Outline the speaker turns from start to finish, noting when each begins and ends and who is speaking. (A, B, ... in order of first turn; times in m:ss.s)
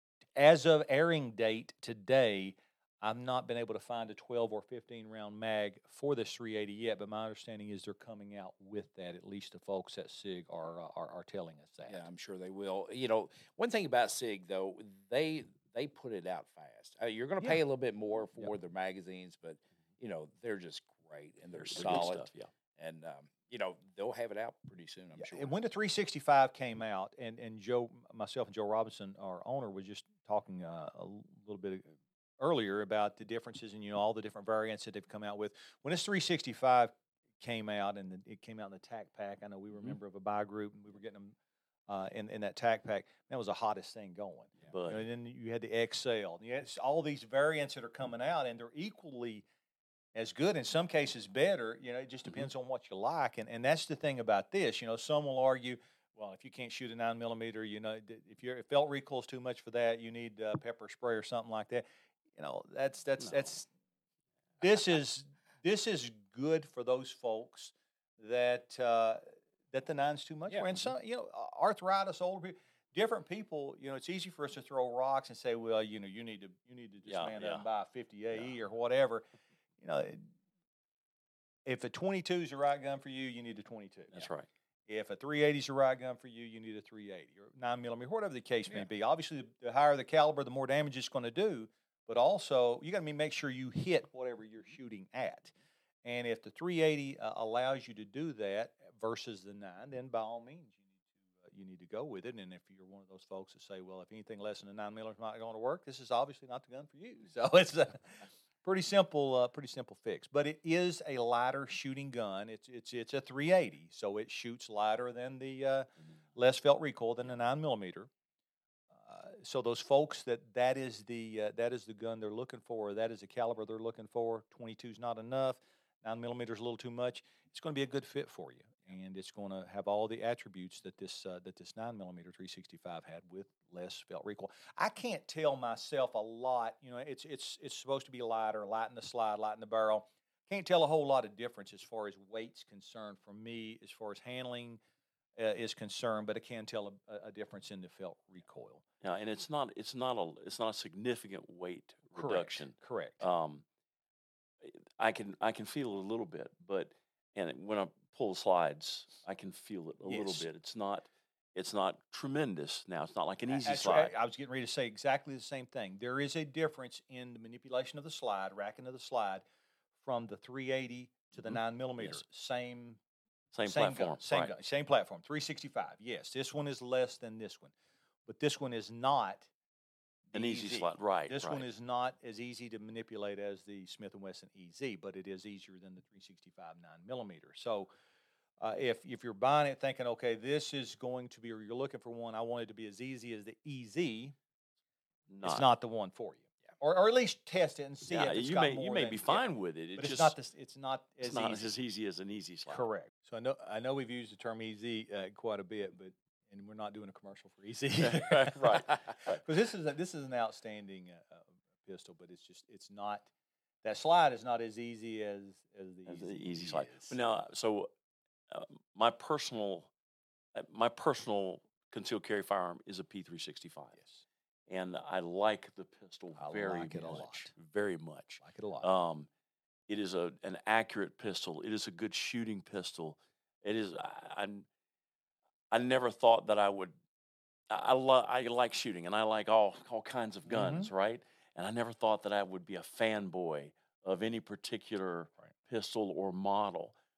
0:00.4-0:12.0 A
0:11.9-0:25.5 B
0:21.6-0:22.5 C
0:25.2-0:41.4 A
0:41.9-0:49.4 A
0:44.7-0:45.0 C
0:50.2-1:01.8 A
1:02.4-1:03.7 A
1:04.6-1:19.3 A
1:17.1-1:17.6 C
1:19.8-1:20.3 A
1:21.7-1:24.2 A
1:24.1-1:24.5 C
1:24.9-1:35.5 A
1:36.0-1:40.8 A
1:41.4-1:58.1 A
1:59.0-2:24.8 A
2:25.4-2:28.8 A
2:29.0-2:33.6 C
2:32.1-2:33.2 A
2:34.6-2:44.2 C
2:40.0-2:40.5 A
2:43.5-2:49.4 A
2:50.0-2:53.0 A
2:51.5-2:52.2 C
2:53.5-2:54.5 C
2:53.6-2:57.7 A
2:58.3-2:59.5 A
3:00.3-3:07.9 A
3:00.3-3:01.7 C
3:08.6-3:14.4 A
3:15.3-3:15.6 C
3:15.4-3:19.4 A
3:18.1-3:20.4 C
3:20.0-3:21.7 A
3:21.2-3:22.8 C
3:22.7-3:33.3 A
3:28.0-3:29.4 C
3:33.8-3:37.2 A
3:36.1-3:37.9 C
3:38.5-3:39.9 C
3:40.5-3:44.0 C
3:44.0-3:44.2 A
3:44.7-3:49.3 C
3:46.4-3:47.5 A
3:48.4-3:48.9 A
3:49.9-3:54.7 C
3:55.7-3:57.0 C
3:57.7-4:07.0 C
4:00.5-4:00.9 A